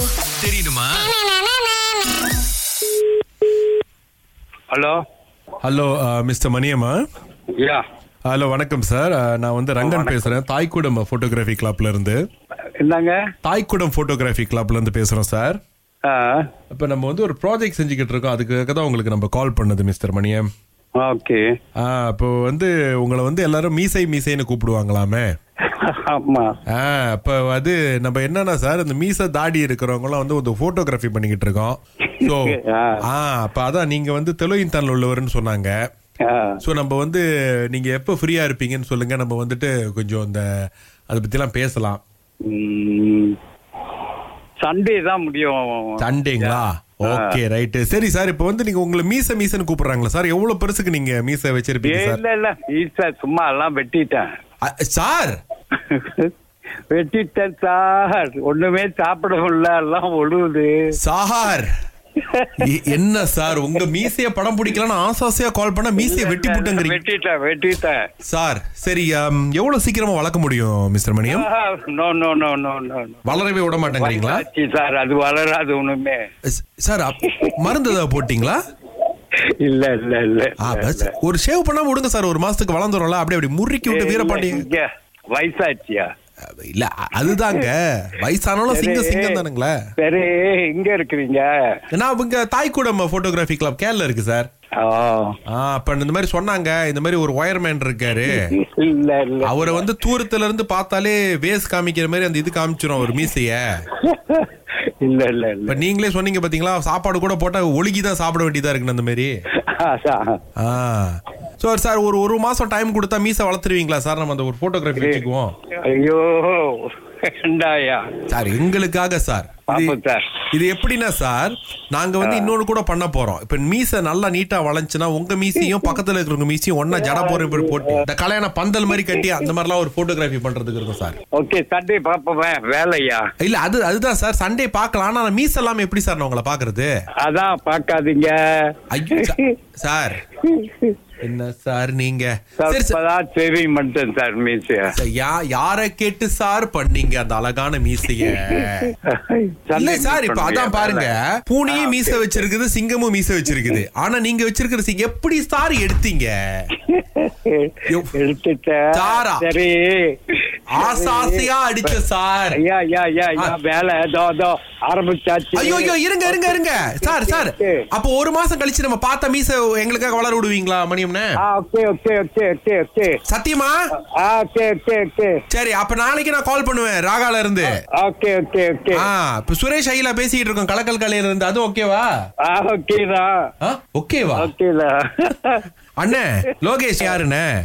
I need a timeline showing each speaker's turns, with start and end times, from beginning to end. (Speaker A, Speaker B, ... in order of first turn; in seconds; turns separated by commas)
Speaker A: 0.3-1.1, Speaker B: 4.7-5.0, Speaker A: 5.6-7.0, Speaker B: 7.6-7.8, Speaker A: 8.3-12.2, Speaker B: 9.8-10.4, Speaker B: 12.8-13.2, Speaker A: 13.4-15.6, Speaker B: 16.0-16.4, Speaker A: 16.7-20.5, Speaker B: 21.0-21.5, Speaker A: 21.8-25.3, Speaker B: 25.7-26.6, Speaker A: 26.7-35.7, Speaker B: 32.2-33.0, Speaker B: 36.2-36.6, Speaker A: 36.6-40.5, Speaker A: 41.1-42.0, Speaker B: 42.4-43.4, Speaker B: 44.6-47.4, Speaker A: 46.0-52.2, Speaker B: 51.8-54.3, Speaker A: 54.6-55.4, Speaker B: 55.8-56.3, Speaker B: 56.9-60.9, Speaker A: 61.0-61.7, Speaker B: 62.2-62.7, Speaker A: 62.6-67.0, Speaker B: 63.5-64.1, Speaker B: 66.0-68.0, Speaker A: 68.2-71.5, Speaker B: 71.3-73.3, Speaker A: 73.2-74.4, Speaker B: 73.8-76.2, Speaker A: 76.6-78.6, Speaker B: 77.2-77.9, Speaker B: 79.6-81.1, Speaker A: 80.6-84.7, Speaker B: 83.9-86.1, Speaker A: 86.4-89.7, Speaker B: 87.3-87.6, Speaker B: 88.7-89.4, Speaker B: 90.0-91.5, Speaker A: 91.9-94.5, Speaker B: 94.8-95.4, Speaker A: 95.5-98.4, Speaker B: 98.3-99.9, Speaker A: 99.4-103.8, Speaker B: 104.0-105.8, Speaker A: 105.7-109.4, Speaker B: 109.7-110.4, Speaker A: 110.6-115.5, Speaker B: 115.0-115.2, Speaker B: 115.8-118.0, Speaker A: 118.3-120.0, Speaker B: 119.7-120.3, Speaker A: 120.5-131.2, Speaker B: 122.2-122.5, Speaker B: 125.6-125.9, Speaker B: 126.9-128.0, Speaker B: 129.0-129.4, Speaker B: 131.3-133.2, Speaker A: 133.4-136.9, Speaker B: 137.2-139.5, Speaker A: 138.9-140.2, Speaker B: 140.4-140.9, Speaker A: 141.2-143.0, Speaker B: 142.6-144.9, Speaker A: 144.9-148.9, Speaker B: 148.2-151.2, Speaker A: 149.7-156.3, Speaker B: 151.7-152.4, Speaker B: 156.8-162.0, Speaker A: 158.9-159.4, Speaker A: 160.8-162.6, Speaker B: 162.5-167.9, Speaker A: 165.5-171.3, Speaker B: 171.4-173.2, Speaker A: 173.2-173.8, Speaker B: 173.9-175.4, Speaker A: 175.5-177.8, Speaker B: 177.7-179.1, Speaker A: 178.9-182.1, Speaker B: 182.4-183.5, Speaker A: 183.6-184.5, Speaker B: 184.3-185.7, Speaker A: 186.0-187.5